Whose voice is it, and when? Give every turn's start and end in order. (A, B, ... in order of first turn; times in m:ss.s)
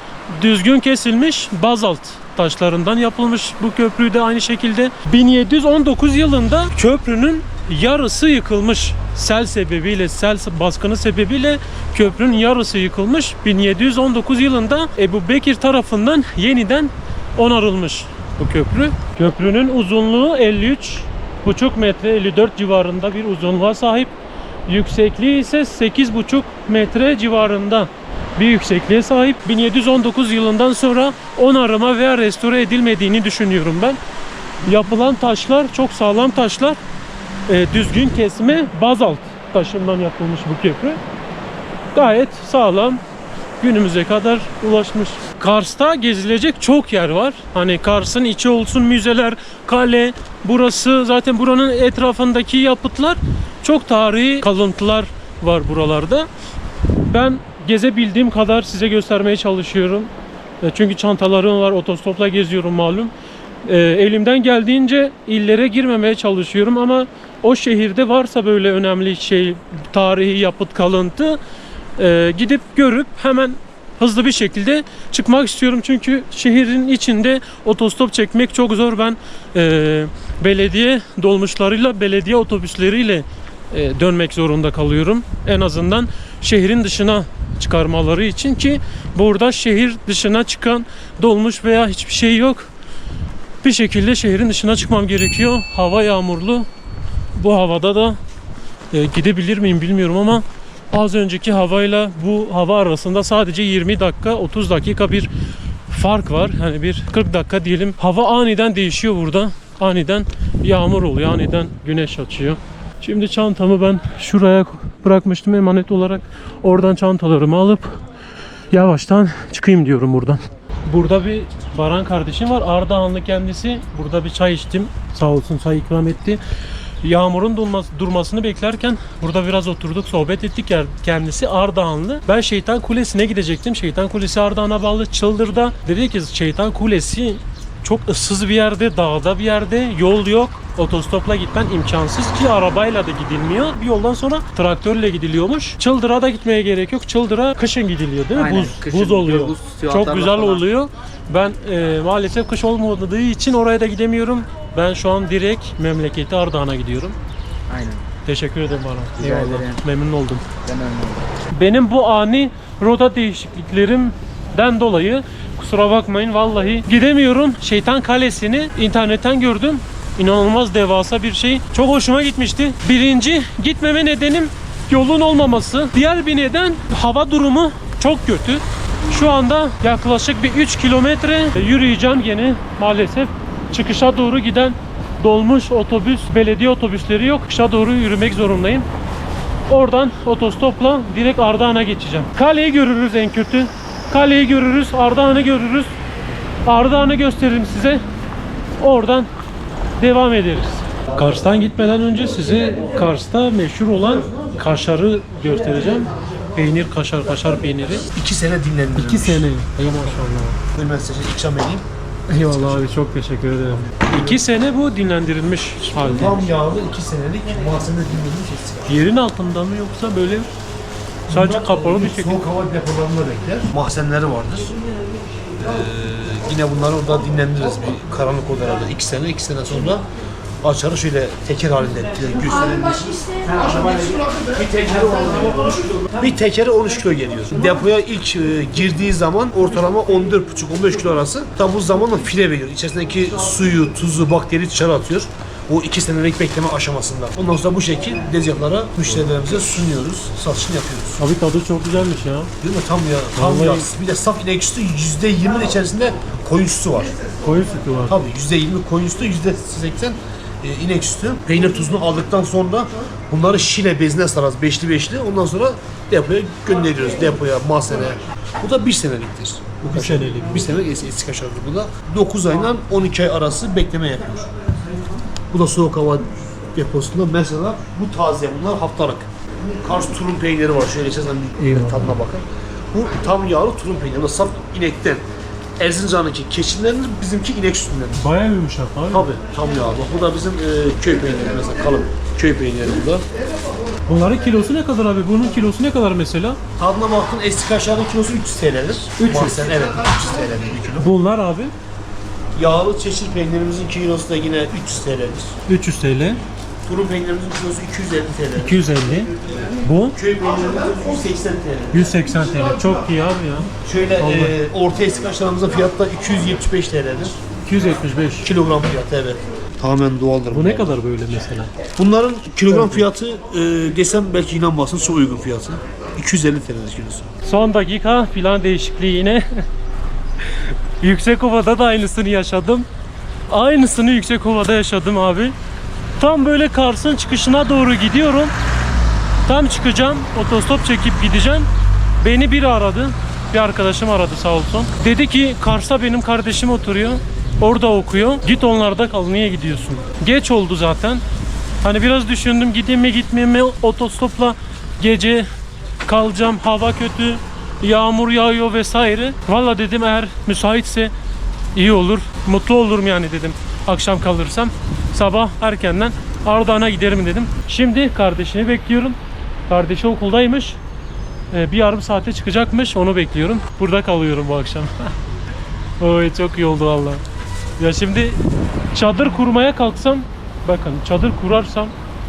0:00.3-0:24.1 A
0:24.7-0:34.0 A
0:34.6-0:36.8 A
0:37.5-0:41.0 A
0:41.9-0:43.0 A
0:43.6-0:56.3 A
0:57.1-1:00.1 A
1:00.6-1:03.1 A
1:03.6-1:11.4 A
1:12.0-1:32.7 A
1:33.6-1:36.7 A
1:37.4-1:38.2 A
1:38.9-1:45.3 A
1:45.9-1:58.0 A
1:58.7-2:06.4 A
2:07.0-2:37.2 A
2:28.3-2:30.6 B
2:37.7-2:38.0 B
2:38.2-2:40.4 A
2:39.2-2:39.8 B
2:40.6-2:41.3 B
2:41.5-3:08.8 A
3:09.7-3:15.9 A
3:16.6-3:18.0 A
3:18.8-3:19.3 A
3:20.0-3:28.1 A
3:28.1-3:29.5 C
3:28.9-3:30.6 A
3:30.7-3:31.8 C
3:32.3-3:36.4 A
3:33.8-3:34.4 C
3:36.0-3:38.9 C
3:38.8-3:40.5 A
3:41.3-3:44.7 C
3:41.3-3:42.4 A
3:45.5-3:50.0 C
3:50.6-4:11.2 C
4:11.2-4:12.5 A
4:12.6-4:17.2 C
4:13.4-4:13.9 A
4:17.4-4:18.2 A
4:18.1-4:34.5 C
4:29.8-4:30.6 A
4:35.5-4:45.2 C
4:41.6-4:42.1 A
4:45.8-4:48.2 C
4:48.2-4:49.4 A
4:49.1-4:53.2 C
4:54.1-4:56.6 A
4:56.8-5:01.1 C
4:59.2-4:59.6 A
5:01.0-5:01.7 A
5:02.6-5:05.6 C
5:05.7-5:06.4 A
5:06.8-5:12.1 C
5:08.6-5:09.3 A
5:09.8-5:10.2 A
5:11.9-5:14.6 A
5:13.8-5:17.4 C
5:17.6-5:18.5 A
5:18.4-5:21.0 C
5:20.5-5:21.7 A
5:22.0-5:27.3 C
5:22.7-5:23.0 A
5:27.4-5:29.6 A
5:31.0-5:32.8 A
5:33.5-5:35.5 A
5:36.2-5:38.5 A
5:39.4-5:41.7 A
5:42.2-5:51.2 A
5:51.8-5:55.5 A
5:56.0-6:01.1 A
6:01.7-6:09.2 A
6:09.7-6:10.8 A
6:11.5-6:15.1 A
6:16.0-6:17.2 A
6:17.8-6:18.4 A
6:18.9-6:21.9 A